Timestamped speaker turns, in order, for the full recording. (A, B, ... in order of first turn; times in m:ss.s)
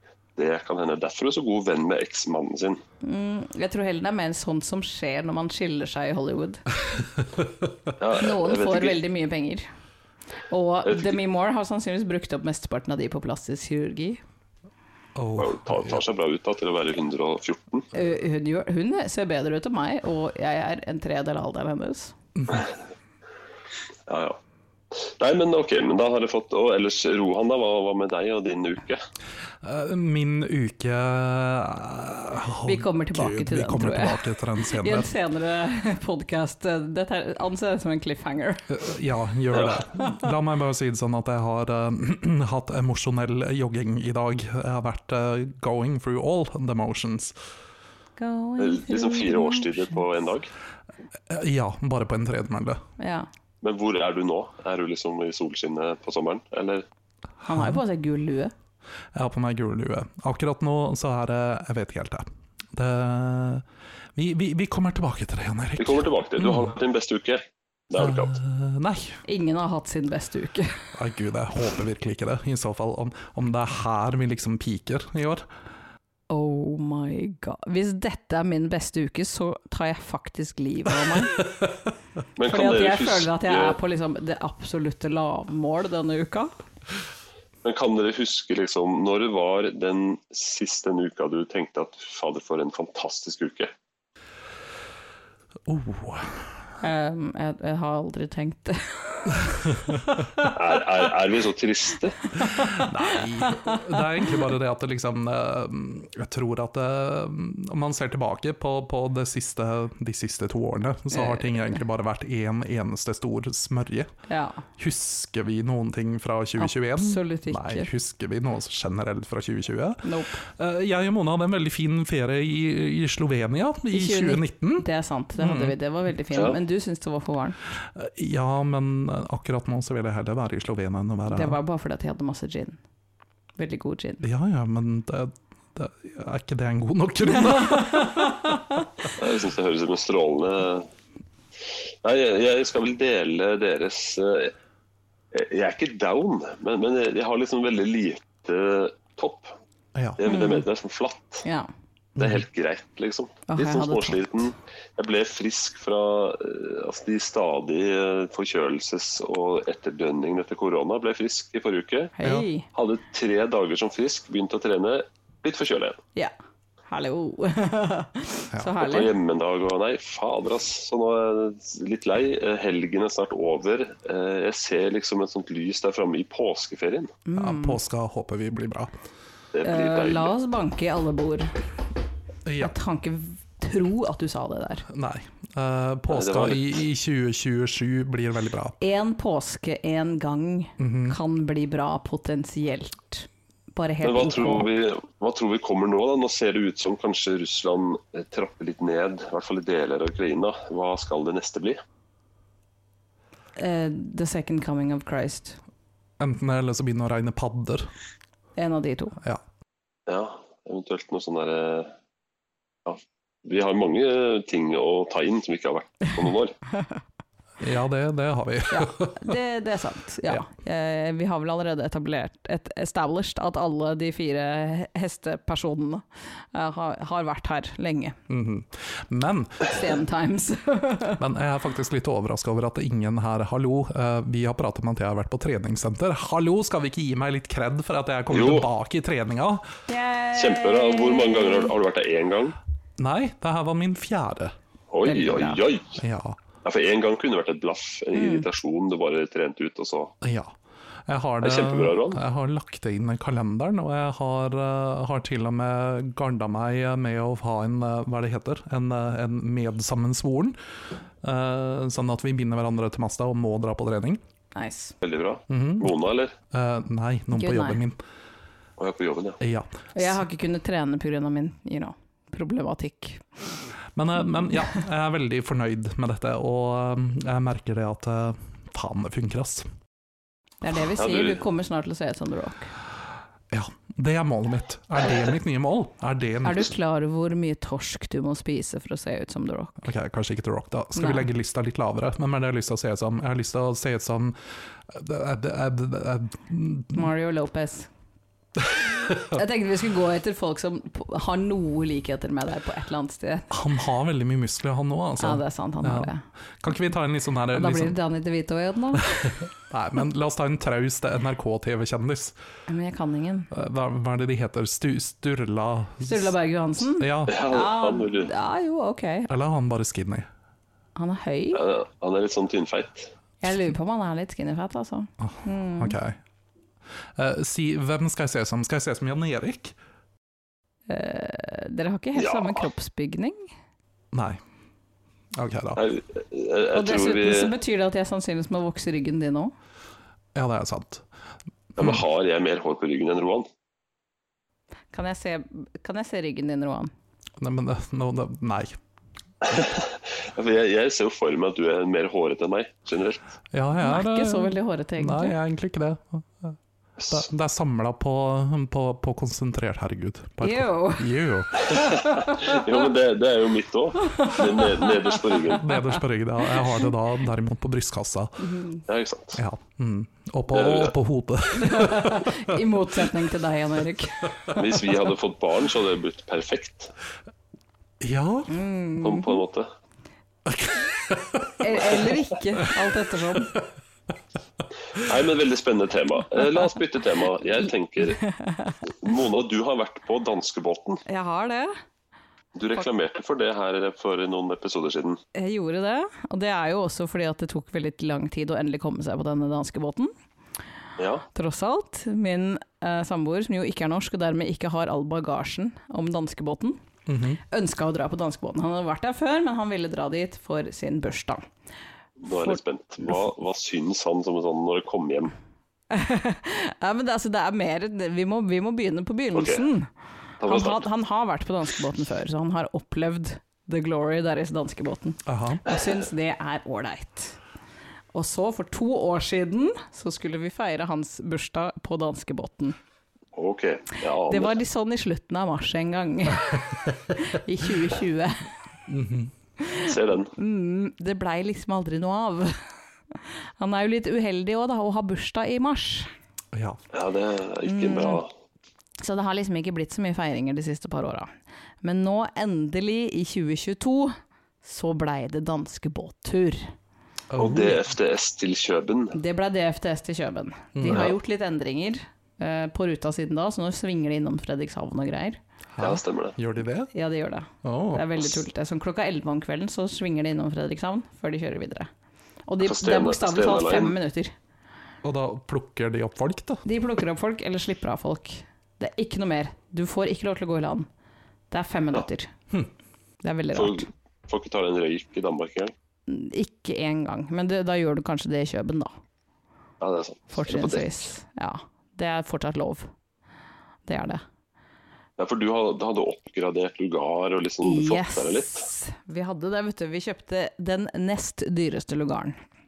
0:00.4-0:02.8 A
0:03.0-0:06.6 B
0:08.0-0:09.0 A
0:08.2-0:09.7 B
0:10.5-0:14.2 B
0:10.9-0:11.2 A
0:15.2-0:16.0 C
0:15.4-0:17.9 A
0:17.9-0:22.1 B
0:22.4-0:22.6 C
0:24.1-0:24.4 A
0:24.9-0:29.0 A
0:29.6-0:35.1 C
0:32.6-0:38.7 B
0:38.7-0:47.4 C
0:39.5-0:39.8 A
0:48.2-0:50.0 B
0:48.6-0:50.5 A
0:51.3-0:52.8 C
0:53.0-0:53.3 B
0:53.6-0:56.8 A
0:57.4-0:58.5 B
0:57.5-0:57.8 C
0:59.1-1:03.6 C
1:04.2-1:06.7 C
1:05.8-1:08.4 A
1:08.0-1:09.2 C
1:09.2-1:10.8 B
1:11.0-1:15.5 C
1:16.3-1:21.4 B
1:21.1-1:21.8 C
1:22.4-1:23.8 A
1:22.4-1:26.5 B
1:27.6-1:33.7 A
1:35.7-1:36.4 C
1:36.8-1:40.6 B
1:40.5-1:42.2 A
1:42.4-1:44.0 B
1:42.6-1:54.1 C
1:51.1-1:51.8 B
1:54.3-1:54.6 B
1:54.8-2:04.9 C
1:56.6-1:57.9 B
2:00.0-2:00.4 B
2:03.9-2:07.6 B
2:05.4-2:05.8 C
2:07.8-2:11.6 C
2:11.3-2:12.8 B
2:13.6-2:14.2 B
2:14.2-2:18.5 C
2:17.3-2:18.7 B
2:19.2-2:20.9 A
2:21.7-2:24.5 A
2:25.3-2:29.5 A
2:30.2-2:31.5 A
2:30.3-2:30.6 B
2:32.2-2:32.4 C
2:32.2-2:42.1 A
2:33.5-2:34.5 B
2:42.2-2:42.7 B
2:42.7-2:46.0 A
2:46.9-2:49.1 B
2:48.8-2:57.1 A
2:57.3-2:57.8 B
2:57.4-2:58.9 C
2:59.5-3:00.3 A
2:59.6-3:01.6 B
3:02.4-3:02.7 C
3:02.6-3:04.8 B
3:04.9-3:08.8 C
3:06.1-3:06.7 A
3:08.8-3:14.7 B
3:10.8-3:11.2 C
3:14.0-3:21.8 A
3:23.6-3:25.6 B
3:26.2-3:27.9 C
3:28.6-3:29.2 B
3:30.1-3:31.9 A
3:32.9-3:36.6 A
3:37.6-3:39.3 C
3:38.7-3:48.2 B
3:48.3-3:49.8 C
3:49.7-3:51.2 B
3:51.2-3:59.7 C
3:58.3-3:58.7 A
3:59.9-4:01.7 B
4:00.4-4:02.6 A
4:03.0-4:04.6 C
4:04.9-4:06.0 A
4:05.0-4:05.6 B
4:06.0-4:06.4 C
4:06.6-4:10.2 A
4:08.1-4:08.5 B
4:10.2-4:10.6 C
4:11.1-4:20.6 C
4:11.4-4:12.2 A
4:21.2-4:24.2 C
4:24.6-4:25.0 B
4:25.0-4:26.3 A
4:25.5-4:25.9 C
4:26.5-4:28.0 C
4:27.3-4:27.8 B
4:28.8-4:29.4 A
4:29.4-4:30.2 C
4:30.0-4:33.2 B
4:34.0-4:39.7 C
4:40.6-4:42.7 B
4:41.0-4:41.4 A
4:43.5-4:46.7 C
4:46.4-4:49.9 B
4:49.8-4:57.1 C
4:51.0-4:51.3 B
4:56.9-4:57.9 B
4:58.6-4:59.4 C
4:59.3-5:03.5 B
5:03.5-5:08.0 C
5:05.2-5:06.2 B
5:07.5-5:09.4 B
5:09.3-5:12.4 C
5:12.7-5:13.5 B
5:13.5-5:17.4 C
5:16.0-5:19.3 B
5:17.3-5:18.3 A
5:19.3-5:20.3 C
5:21.0-5:21.6 B
5:21.5-5:23.1 A
5:23.4-5:26.0 B
5:25.2-5:26.2 C
5:27.2-5:29.8 C
5:30.9-5:33.5 B
5:32.2-5:32.6 A
5:34.1-5:34.4 C
5:35.4-5:35.8 C
5:35.8-5:37.5 A
5:36.7-5:39.5 B
5:40.4-5:41.0 C
5:41.8-5:43.5 A
5:44.9-5:46.9 B
5:47.4-5:48.8 C
5:49.4-5:53.3 A
5:53.5-5:56.6 C
5:53.8-5:55.4 B
5:57.0-5:57.3 A
5:57.1-6:01.9 C
6:00.4-6:02.7 B
6:01.7-6:05.7 A
6:04.0-6:06.0 B
6:05.6-6:08.5 C
6:06.6-6:06.9 B
6:08.4-6:08.8 B
6:08.9-6:09.4 A
6:09.4-6:12.6 C
6:10.5-6:10.9 A
6:11.5-6:14.5 B
6:14.6-6:16.9 A
6:18.0-6:18.5 C
6:18.5-6:19.4 B
6:19.0-6:19.7 A
6:20.5-6:22.0 C
6:21.6-6:23.5 B
6:23.4-6:23.6 C
6:25.0-6:28.2 A
6:28.2-6:28.8 B
6:28.9-6:31.0 A
6:31.1-6:31.7 B
6:32.6-6:35.2 A
6:35.4-6:40.1 B
6:41.0-6:41.2 A
6:41.3-6:46.8 B
6:47.1-6:47.4 C
6:47.5-6:51.4 B
6:52.2-6:55.3 A
6:52.3-6:52.6 B
6:55.9-6:59.9 B
6:59.4-6:59.6 A
7:00.4-7:00.8 A
7:00.4-7:07.4 B
7:05.3-7:05.6 C
7:08.1-7:12.8 B
7:13.4-7:14.6 A
7:14.3-7:18.5 B
7:18.9-7:19.3 C
7:19.6-7:22.6 B
7:19.8-7:20.3 A
7:23.1-7:26.1 B
7:26.5-7:26.8 C
7:26.9-7:28.3 A
7:27.6-7:28.2 B
7:29.0-7:31.3 B
7:31.8-7:36.7 B
7:37.3-7:37.9 C
7:37.4-7:39.2 A
7:39.1-7:45.4 B
7:40.8-7:41.1 C
7:40.9-7:41.1 A
7:45.7-7:46.9 C
7:45.8-7:46.4 A
7:46.9-7:51.9 B
7:47.6-7:48.2 C
7:52.5-7:54.3 B
7:52.6-7:54.0 A
7:55.0-7:56.6 C
7:56.6-8:00.9 B
8:01.5-8:02.3 B
8:03.2-8:03.9 B
8:03.5-8:05.7 A
8:06.1-8:08.9 B
8:09.8-8:11.0 A
8:10.3-8:12.9 B
8:13.9-8:14.2 B
8:15.2-8:18.7 A
8:17.6-8:22.4 B